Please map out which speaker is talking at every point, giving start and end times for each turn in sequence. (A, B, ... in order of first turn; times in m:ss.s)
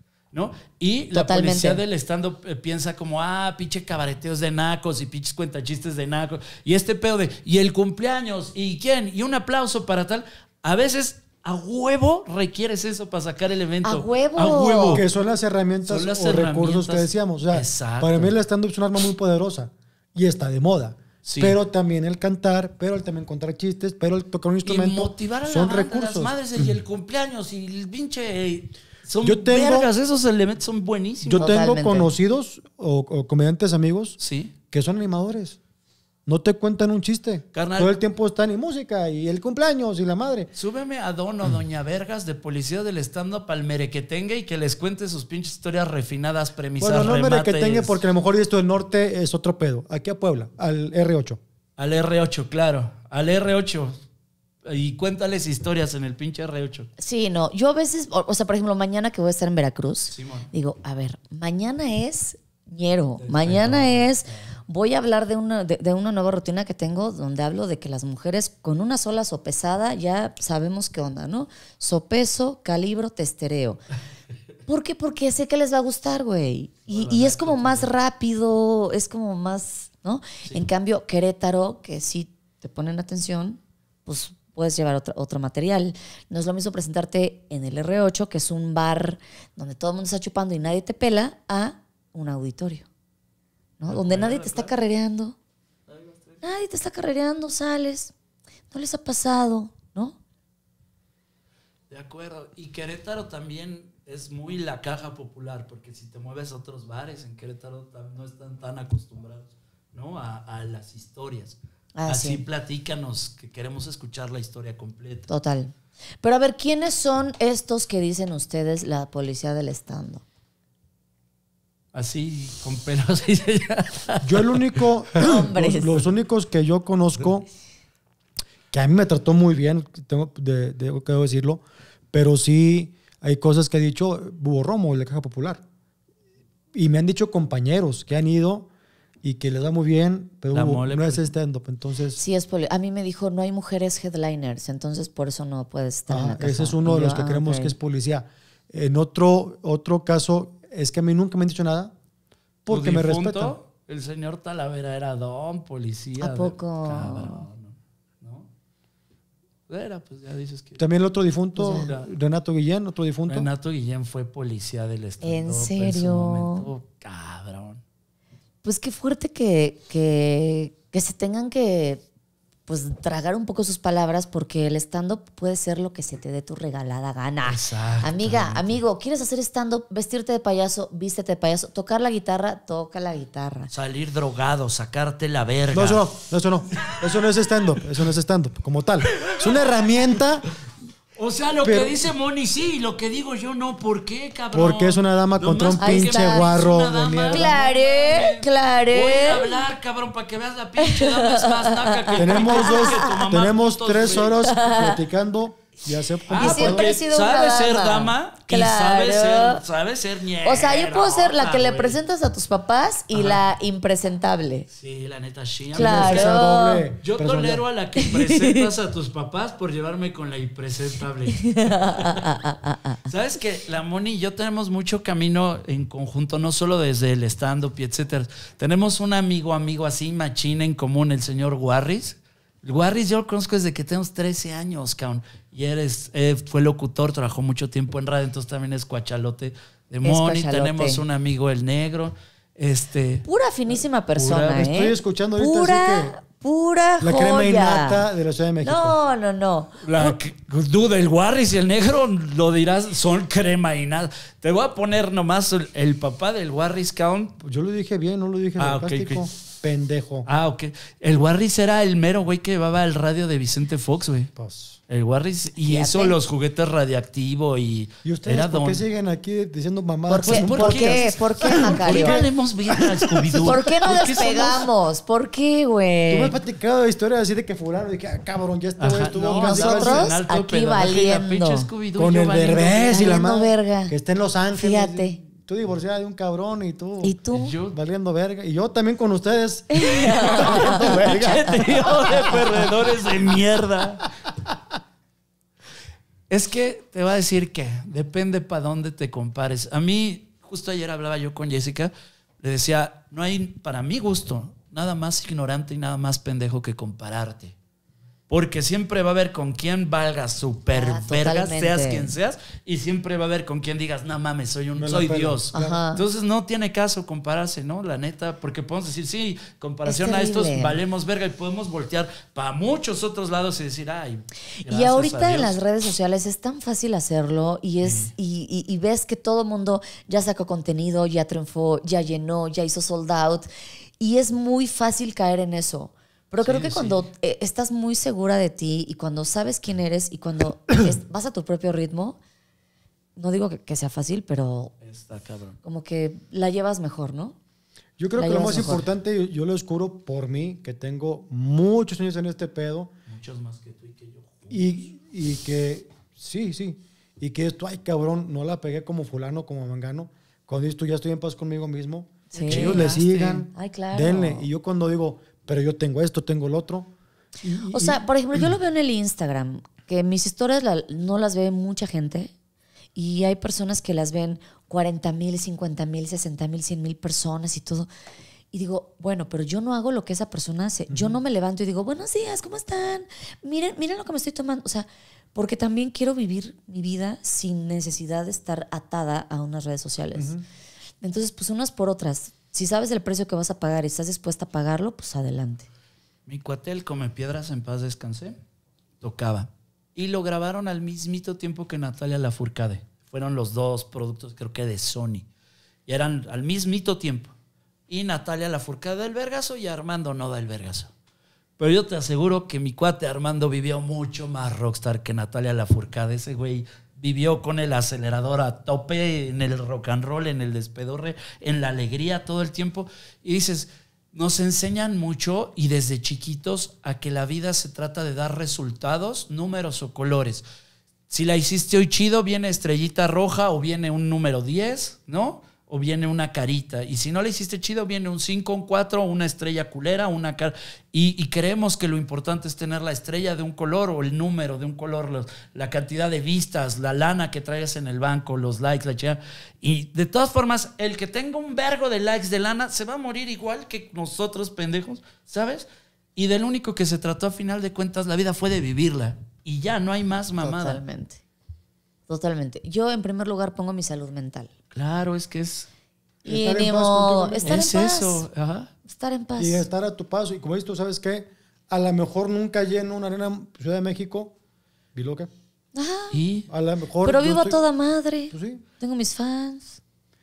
0:00.3-0:15.0 A
0:01.1-0:01.8 B
0:13.8-0:15.0 B
0:14.9-0:26.8 C
0:15.8-0:18.3 A
0:21.2-0:21.6 A
0:24.6-0:31.5 A
0:29.2-0:29.9 C
0:31.2-0:34.2 C
0:31.3-0:32.1 B
0:34.2-0:34.5 A
0:34.7-0:35.6 C
0:36.2-0:40.5 C
0:37.5-0:37.9 A
0:40.6-0:48.0 A
0:46.8-0:51.4 C
0:51.8-0:54.0 A
0:54.6-0:56.9 A
0:57.0-1:13.8 B
1:00.1-1:00.5 A
1:03.2-1:04.5 A
1:14.7-1:32.9 B
1:16.9-1:17.9 A
1:33.8-1:35.4 B
1:33.8-1:34.7 A
1:35.9-1:36.4 A
1:36.4-1:38.1 B
1:38.7-1:40.2 B
1:41.9-1:55.3 A
1:52.0-1:52.4 B
1:55.3-2:00.2 B
2:01.9-2:04.7 A
2:04.2-2:07.5 C
2:05.2-2:06.1 B
2:08.7-2:15.6 C
2:16.7-2:18.7 C
2:19.2-2:22.2 C
2:20.5-2:21.3 A
2:22.2-2:27.7 B
2:26.1-2:31.9 C
2:32.6-2:33.5 C
2:32.7-2:38.5 A
2:36.2-2:37.4 B
2:39.7-2:40.8 A
2:40.8-2:43.5 C
2:41.6-2:41.9 B
2:41.8-2:42.1 A
2:43.3-2:47.8 A
2:45.2-2:46.7 B
2:48.6-2:52.0 B
2:52.7-3:03.7 B
2:57.4-2:58.8 A
3:03.7-3:06.0 A
3:05.7-3:10.4 C
3:09.1-3:09.6 A
3:11.2-3:24.4 A
3:11.6-3:12.0 C
3:14.5-3:17.6 C
3:15.8-3:16.6 B
3:17.3-3:19.6 B
3:20.8-3:23.1 B
3:22.2-3:27.0 C
3:24.3-3:25.0 B
3:26.3-3:32.0 A
3:26.3-3:29.6 B
3:30.4-3:34.7 B
3:33.1-3:33.4 A
3:34.7-3:36.4 A
3:35.7-3:37.6 C
3:35.7-3:36.8 B
3:37.0-3:42.3 A
3:38.0-3:38.7 B
3:41.4-3:43.0 B
3:43.0-4:03.3 A
4:00.0-4:01.0 B
4:03.2-4:08.1 B
4:04.2-4:04.6 A
4:04.3-4:06.2 C
4:07.0-4:09.0 C
4:08.6-4:10.2 B
4:09.8-4:17.4 A
4:17.4-4:20.3 C
4:18.6-4:19.3 A
4:20.3-4:24.3 A
4:24.3-4:24.8 C
4:24.9-4:28.8 A
4:25.6-4:26.2 B
4:28.0-4:33.6 C
4:30.1-4:32.2 B
4:30.2-4:34.7 A
4:33.4-4:36.4 B
4:36.1-4:40.1 C
4:38.8-4:43.2 A
4:39.2-4:41.7 B
4:42.0-4:47.2 C
4:42.9-4:43.9 B
4:44.5-4:45.2 B
4:47.0-4:47.5 B
4:47.3-4:47.8 A
4:47.7-4:52.1 C
4:49.7-4:51.6 B
4:49.9-4:54.1 A
4:56.3-5:07.5 A
5:08.3-5:25.6 A
5:10.7-5:12.1 B
5:14.8-5:15.8 C
5:15.5-5:16.0 B
5:19.8-5:20.8 B
5:24.6-5:33.5 B
5:27.8-5:28.1 A
5:34.0-5:42.2 B
5:36.4-5:37.0 A
5:43.2-5:44.7 B
5:44.8-5:45.6 A
5:45.6-5:47.4 B
5:48.0-5:52.9 C
5:48.2-5:48.8 B
5:53.1-5:54.7 A
5:54.5-6:06.9 C
6:02.3-6:03.0 B
6:02.4-6:03.4 A
6:03.5-6:04.5 B
6:07.4-6:08.5 C
6:07.7-6:12.3 B
6:12.9-6:17.9 B
6:18.5-6:30.3 B
6:20.9-6:21.2 C
6:30.1-6:30.4 C
6:31.0-6:35.7 B
6:36.3-6:38.4 A
6:39.0-6:45.2 A
6:45.9-6:47.3 A
6:47.9-6:50.9 A
6:51.6-7:10.4 A
7:11.1-7:40.8 A
7:40.4-7:41.2 B
7:42.1-7:44.5 B
7:44.7-7:45.7 A
7:46.2-7:48.2 B
7:46.2-7:47.6 C
7:47.5-7:48.7 A
7:48.9-7:49.6 B
7:49.4-7:54.3 C
7:54.9-7:55.3 C
7:55.7-7:56.2 B
7:56.1-7:56.5 A
7:56.5-7:57.6 C
7:57.0-7:59.8 B
7:58.3-7:58.6 C